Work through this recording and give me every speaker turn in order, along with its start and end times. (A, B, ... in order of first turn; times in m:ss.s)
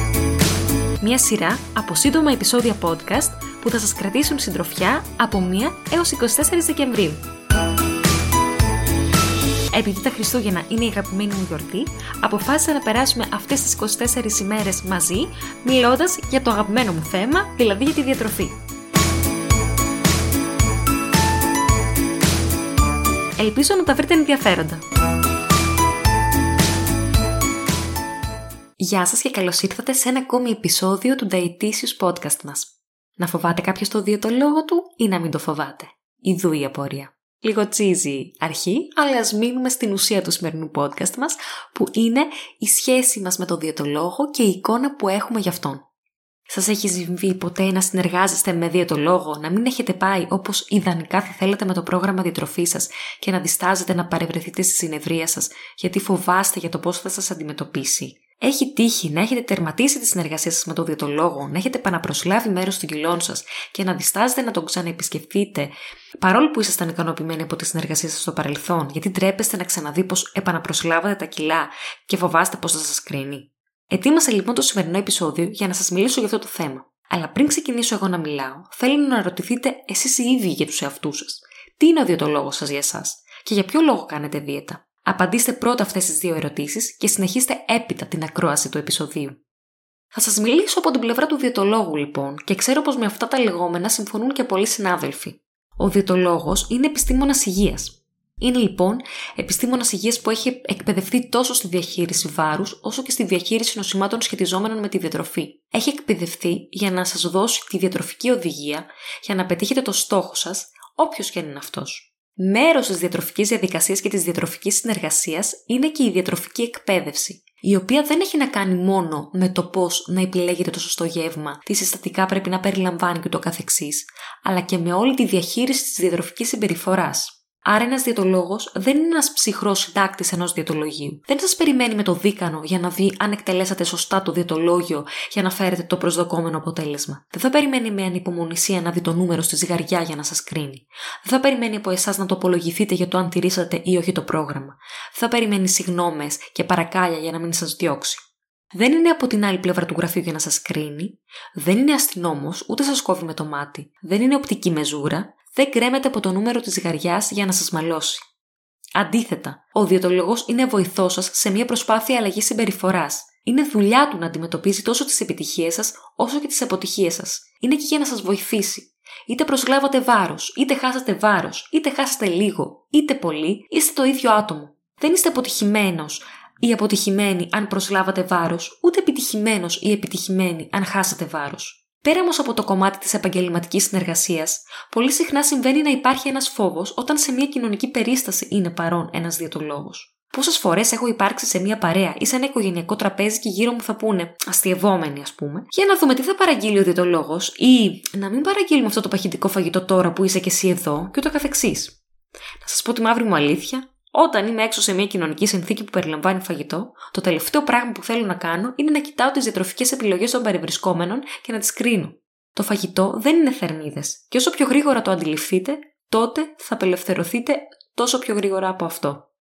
0:01.0-0:07.2 A
0:09.7-0:18.6 A
0:23.4-0:24.8 A
0:28.8-0:45.8 A
0:46.5-1:29.4 A
1:30.1-2:38.2 A
2:39.0-3:22.0 A
3:22.6-3:39.2 A